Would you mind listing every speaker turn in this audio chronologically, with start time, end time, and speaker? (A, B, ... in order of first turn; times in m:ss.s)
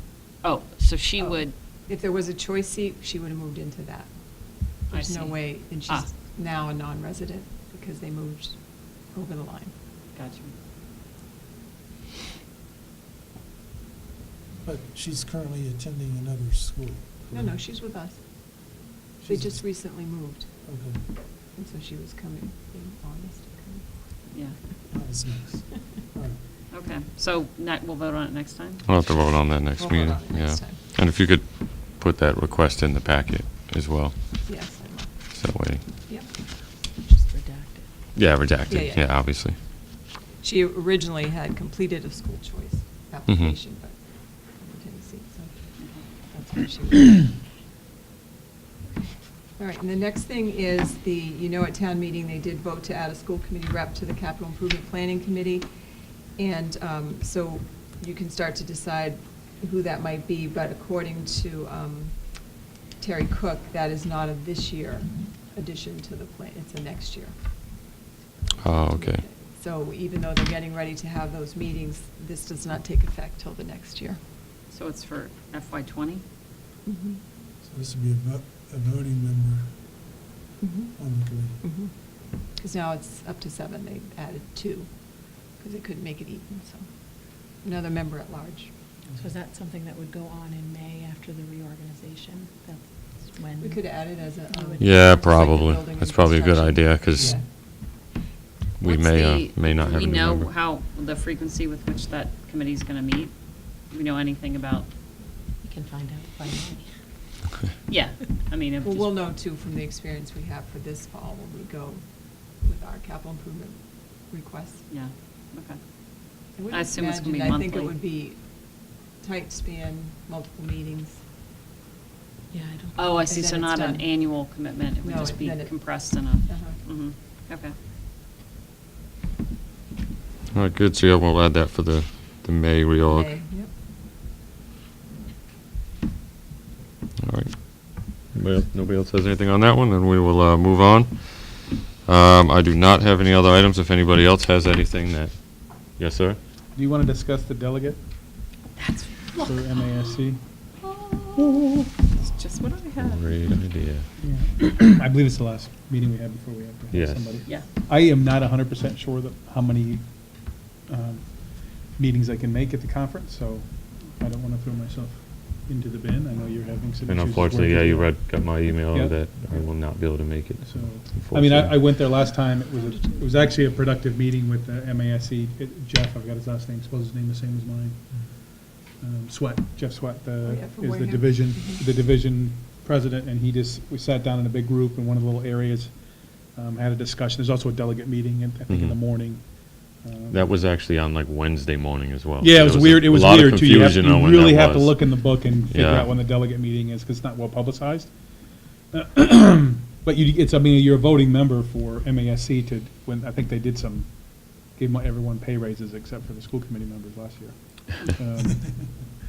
0:00.4-0:01.5 A
0:01.2-0:09.7 B
0:04.9-0:06.1 A
0:10.1-0:10.5 A
0:14.6-0:17.6 C
0:17.3-0:20.5 B
0:19.2-0:19.8 C
0:20.6-0:21.0 C
0:21.5-0:23.9 B
0:24.9-0:26.4 C
0:26.7-0:28.8 A
0:28.9-0:34.2 D
0:29.8-0:30.8 B
0:34.4-0:35.2 B
0:35.3-0:35.8 D
0:37.0-0:37.9 E
0:38.2-0:39.6 D
0:38.7-0:39.1 B
0:40.4-0:47.2 B
0:43.3-0:43.5 D
0:45.8-0:46.0 A
0:49.6-0:55.7 B
0:56.4-1:02.3 B
1:03.0-1:07.4 B
1:08.6-1:09.2 D
1:08.6-1:14.2 B
1:14.7-1:16.2 A
1:16.8-1:17.2 B
1:17.6-1:19.8 C
1:20.6-1:26.9 B
1:21.0-1:21.6 C
1:27.6-1:28.7 B
1:29.1-1:35.2 E
1:33.6-1:37.5 B
1:34.8-1:37.4 D
1:38.8-1:40.5 D
1:38.8-1:44.9 A
1:45.6-1:46.9 E
1:47.9-1:49.1 A
1:48.8-1:54.8 B
1:54.9-1:55.8 A
1:56.6-2:01.2 B
1:56.7-1:57.9 A
2:02.5-2:03.4 E
2:03.0-2:07.7 A
2:03.3-2:04.2 B
2:05.0-2:06.8 B
2:10.5-2:13.4 D
2:13.0-2:13.7 B
2:17.2-2:26.4 D
2:26.8-2:28.0 F
2:28.8-2:29.3 E
2:29.4-2:30.4 F
2:30.8-2:33.3 A
2:33.0-2:34.0 D
2:34.2-2:40.0 F
2:36.9-2:37.3 D
2:40.8-2:49.6 F
2:47.1-2:51.9 D
2:50.6-2:58.0 F
2:52.8-2:53.2 B
2:59.0-3:05.9 F
3:00.4-3:01.8 B
3:06.5-3:10.5 F
3:08.7-3:09.0 D
3:10.3-3:16.1 D
3:12.4-3:18.1 F
3:18.9-3:28.8 F